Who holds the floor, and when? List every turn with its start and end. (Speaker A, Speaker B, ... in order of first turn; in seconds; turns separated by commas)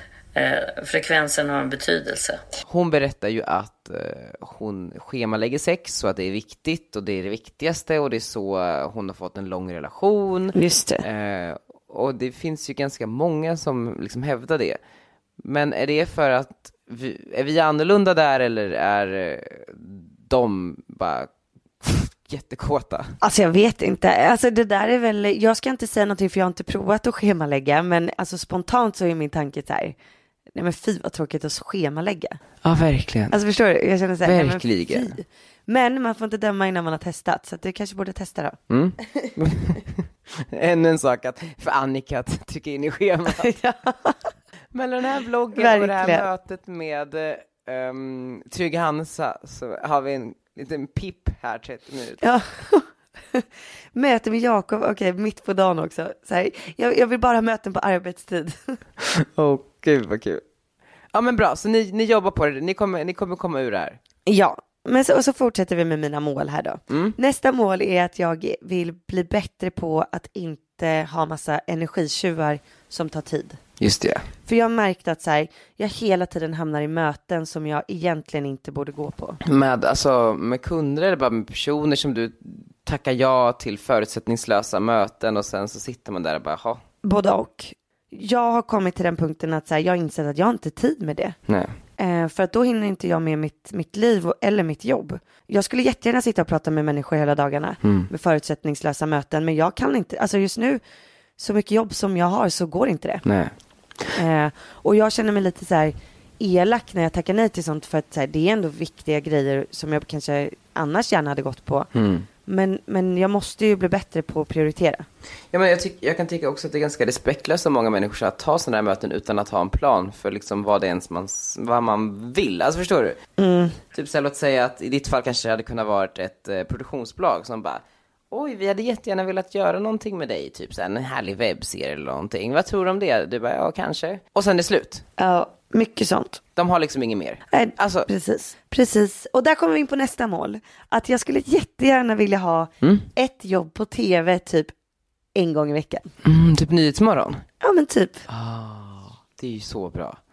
Speaker A: 0.3-2.4, Speaker B: 2.6-14.8, Speaker C: 10.6-11.1, Speaker B: 15.4-21.3, Speaker B: 21.8-23.2, Speaker C: 23.2-30.0, Speaker C: 30.6-32.4, Speaker B: 32.6-33.4, Speaker C: 33.3-38.6, Speaker B: 34.2-35.1, Speaker B: 38.7-43.5, Speaker C: 43.4-44.2, Speaker B: 44.7-52.2, Speaker C: 45.5-46.2, Speaker C: 52.2-58.8, Speaker B: 59.1-60.4, Speaker B: 61.1-64.0, Speaker C: 64.3-73.6, Speaker B: 73.8-74.2, Speaker C: 74.5-79.4, Speaker B: 79.4-86.8, Speaker C: 87.0-91.4, Speaker B: 91.5-91.7, Speaker C: 92.0-100.8, Speaker B: 97.8-98.1, Speaker C: 101.4-103.2, Speaker B: 103.2-103.5, Speaker C: 104.1-111.9, Speaker B: 112.0-112.3, Speaker C: 112.5-115.1, Speaker B: 115.5-123.2, Speaker C: 123.4-123.8, Speaker B: 123.9-135.0, Speaker C: 135.2-136.4, Speaker B: 136.6-138.1, Speaker C: 137.5-144.7, Speaker C: 145.3-146.1, Speaker B: 146.2-147.4, Speaker C: 147.6-148.2, Speaker B: 148.3-150.2